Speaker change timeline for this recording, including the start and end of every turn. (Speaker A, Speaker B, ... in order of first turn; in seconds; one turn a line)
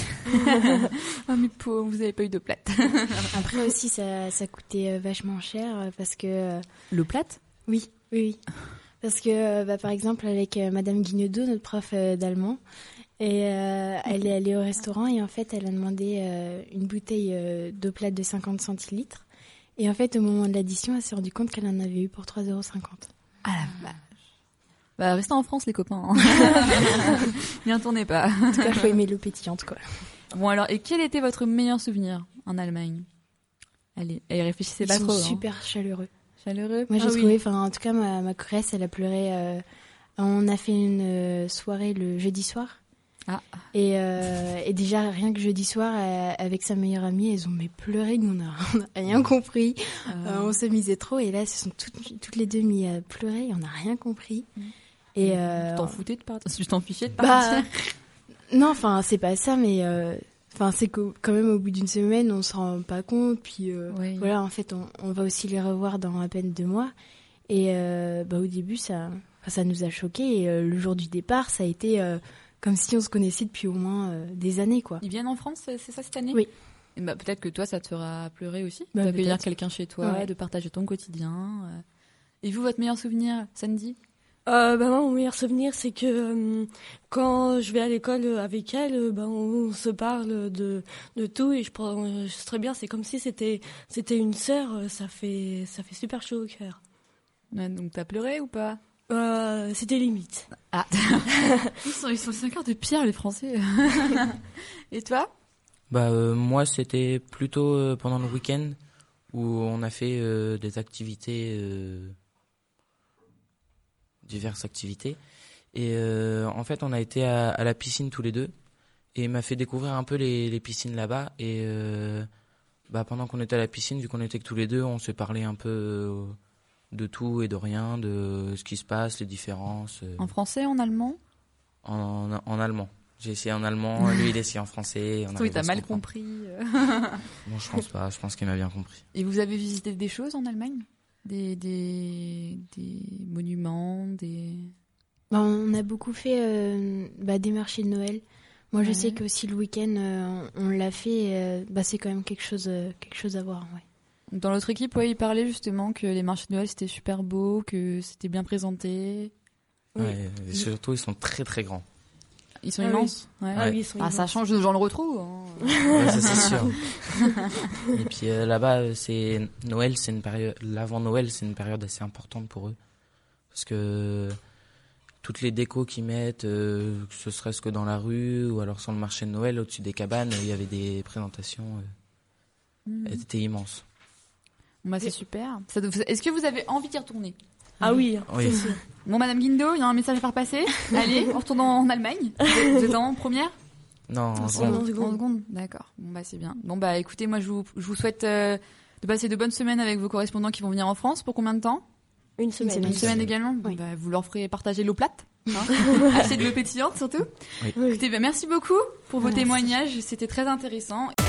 Speaker A: 0.3-3.4
Speaker B: 3.3-6.6
Speaker A: 6.9-7.4
Speaker B: 7.7-8.4
Speaker B: 9.0-12.6
Speaker B: 13.2-19.2
Speaker B: 19.8-23.1
Speaker A: 23.4-24.0
Speaker A: 25.0-28.9
Speaker B: 28.5-29.8
Speaker A: 30.3-33.1
Speaker A: 34.0-35.4
Speaker B: 34.8-36.1
Speaker A: 36.4-37.0
Speaker B: 36.9-39.6
Speaker C: 37.0-37.3
Speaker B: 40.2-42.8
Speaker A: 43.3-43.7
Speaker B: 43.7-54.5
Speaker A: 50.1-50.6
Speaker A: 54.6-57.7
Speaker B: 55.1-56.0
Speaker B: 57.2-57.7
Speaker B: 58.5-66.9
Speaker A: 63.9-64.3
Speaker B: 67.5-75.0
Speaker A: 75.0-76.4
Speaker A: 77.0-81.8
Speaker B: 78.9-79.4
Speaker B: 80.0-80.3
Speaker A: 82.4-84.0
Speaker C: 84.5-96.8
Speaker A: 97.5-98.8
Speaker C: 99.1-100.5
Speaker A: 100.6-105.3
Speaker C: 101.3-101.7
Speaker D: 105.9-108.8
Speaker D: 109.3-112.1
Speaker D: 114.2-115.2
Speaker D: 115.7-118.5
Speaker D: 119.1-122.3
Speaker D: 122.9-126.3
Speaker D: 126.9-130.3
Speaker A: 130.2-131.2
Speaker D: 131.8-136.0
Speaker A: 135.3-137.2
Speaker D: 137.4-139.0
Speaker A: 139.1-144.7
Speaker B: 145.3-153.8
Speaker A: 148.8-149.2
Speaker A: 154.3-159.3
Speaker D: 160.0-161.8
Speaker A: 162.6-167.4
Speaker C: 162.8-164.3
Speaker C: 165.7-166.7
Speaker D: 165.9-166.8
Speaker D: 167.9-172.8
Speaker D: 173.5-174.4
Speaker D: 175.2-181.9
Speaker A: 182.8-183.2
Speaker D: 183.0-183.8
Speaker A: 184.8-187.3
Speaker C: 187.8-188.8
Speaker D: 188.3-188.7
Speaker A: 189.1-193.5
Speaker D: 194.1-194.8
Speaker A: 194.4-201.8
Speaker C: 194.4-195.2
Speaker C: 202.4-203.1
Speaker B: 202.6-203.1
Speaker A: 202.8-211.1
Speaker C: 207.8-208.0